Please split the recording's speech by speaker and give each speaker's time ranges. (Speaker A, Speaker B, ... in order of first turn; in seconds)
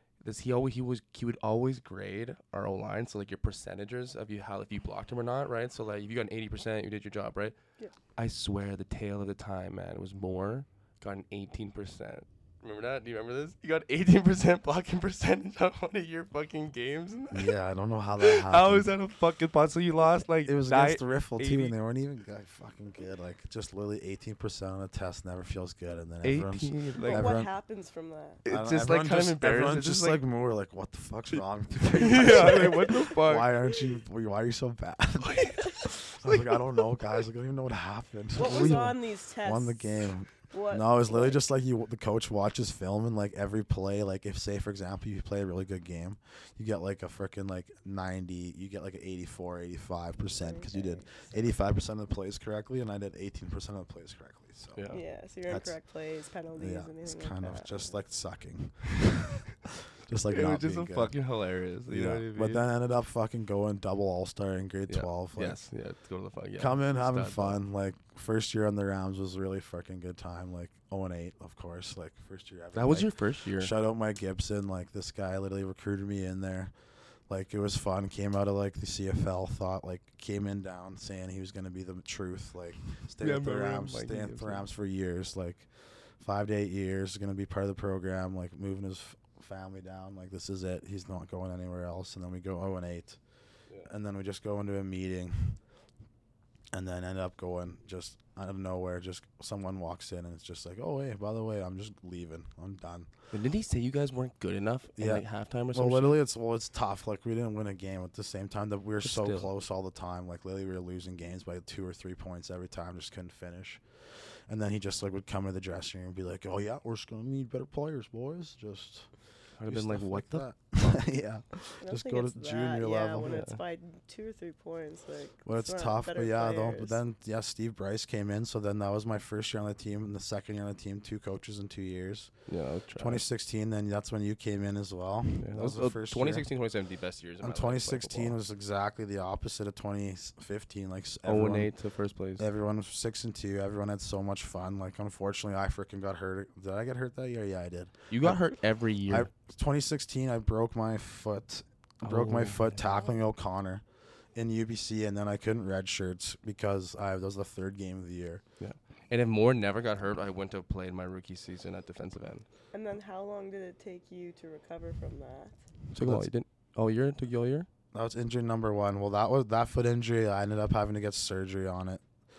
Speaker A: 0.2-7.6, 8.1-17.5, 18.2-21.7, 26.2-27.4, 28.4-30.2, 31.8-33.5, 35.2-36.8, 38.4-38.9, 54.7-55.0, 60.3-62.6, 64.9-67.6, 72.7-73.7, 83.2-84.6, 103.3-106.2, 109.0-109.5, 119.6-121.0, 123.2-123.6, 132.5-133.2, 135.4-138.4, 141.2-142.4, 148.1-149.3, 152.0-153.1, 158.6-162.4, 165.9-167.7
Speaker B: 17.3-18.9, 20.4-27.5, 28.5-54.9, 55.5-55.8, 56.5-59.5, 60.0-61.2, 61.9-65.7, 66.6-76.7, 77.3-93.2, 93.8-95.6, 96.7-103.1, 105.0-113.8, 114.5-119.1, 119.7-123.3, 125.4-136.5, 137.4-141.7, 142.4-148.5, 149.1-153.8, 154.3-158.4, 165.9-166.3, 167.9-172.0
Speaker C: 27.0-28.4, 38.4-41.4, 50.4-51.4, 54.9-57.9, 121.8-127.0, 162.7-165.6